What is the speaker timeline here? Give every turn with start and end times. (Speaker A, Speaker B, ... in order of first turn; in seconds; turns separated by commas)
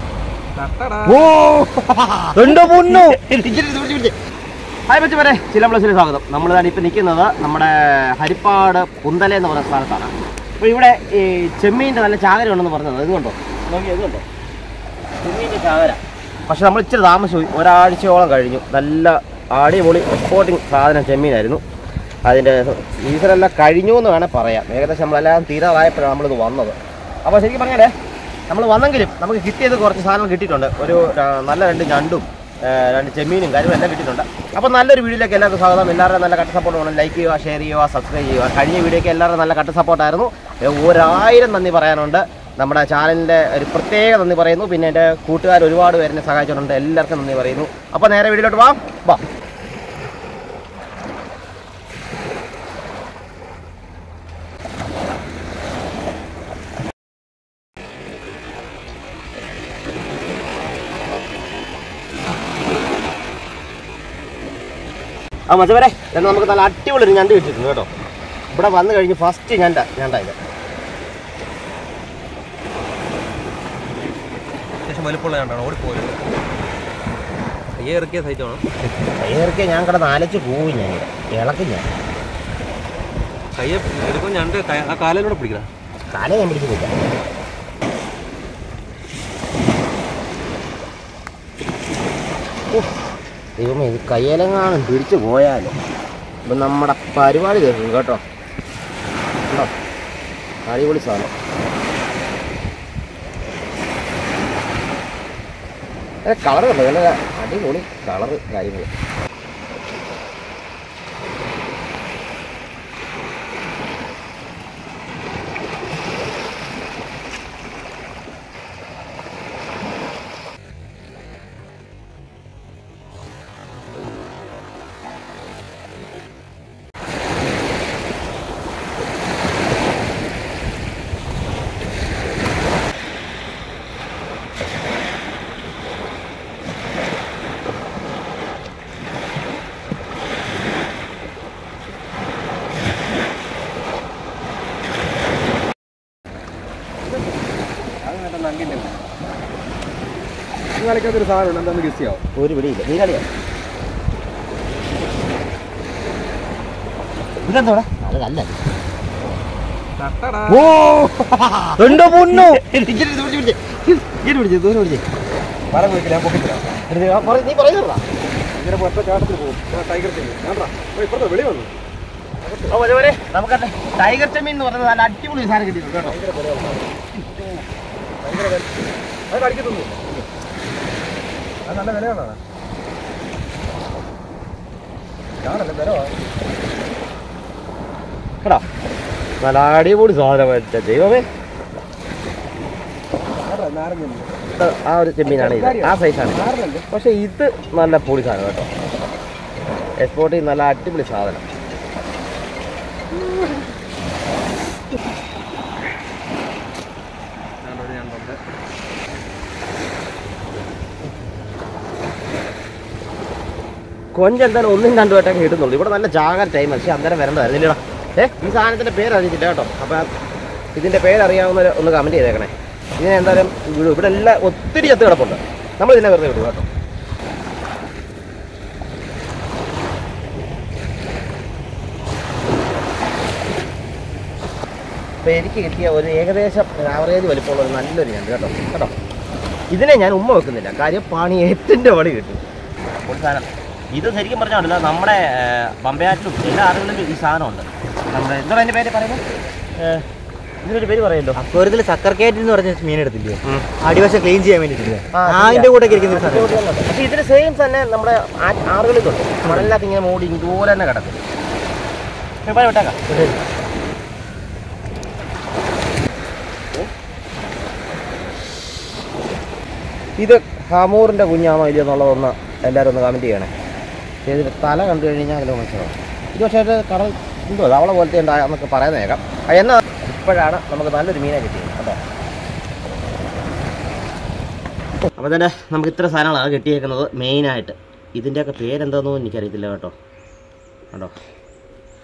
Speaker A: 0.6-1.3, Speaker B: 1.4-4.1, Speaker C: 2.4-3.2, Speaker B: 4.9-14.2, Speaker B: 15.2-21.6, Speaker B: 22.2-27.9, Speaker B: 28.5-49.2, Speaker B: 65.5-67.9, Speaker B: 68.5-70.3, Speaker A: 74.8-76.2, Speaker A: 77.8-78.6, Speaker B: 79.2-81.8, Speaker A: 83.6-85.7, Speaker B: 86.1-86.9, Speaker B: 93.6-95.7, Speaker B: 96.4-98.2, Speaker B: 100.7-101.3, Speaker B: 106.2-108.9, Speaker A: 148.0-148.9, Speaker A: 150.8-152.2, Speaker B: 152.3-153.2, Speaker B: 157.4-158.6, Speaker A: 160.0-160.7, Speaker B: 160.8-165.0, Speaker C: 161.8-162.6, Speaker A: 165.7-166.7, Speaker B: 166.9-168.0, Speaker A: 168.6-171.7, Speaker A: 172.4-172.7, Speaker B: 172.7-176.2, Speaker A: 175.9-177.6, Speaker A: 178.2-178.7, Speaker A: 179.3-180.0, Speaker A: 181.7-182.4, Speaker A: 185.4-186.1, Speaker B: 189.4-191.3, Speaker A: 193.3-194.3, Speaker B: 194.6-196.4, Speaker A: 195.2-196.8, Speaker B: 196.9-198.7, Speaker B: 200.0-201.4, Speaker A: 207.6-208.4, Speaker B: 214.1-220.1, Speaker B: 220.7-226.7, Speaker B: 235.2-238.9, Speaker B: 239.7-242.4, Speaker B: 243.0-249.2, Speaker B: 249.8-250.0, Speaker B: 250.6-251.4, Speaker C: 251.3-256.6, Speaker B: 253.4-253.7, Speaker B: 255.1-261.2, Speaker C: 259.4-259.8, Speaker B: 262.4-263.0, Speaker C: 263.1-263.4, Speaker B: 270.2-273.5, Speaker B: 274.2-282.0, Speaker B: 285.1-289.9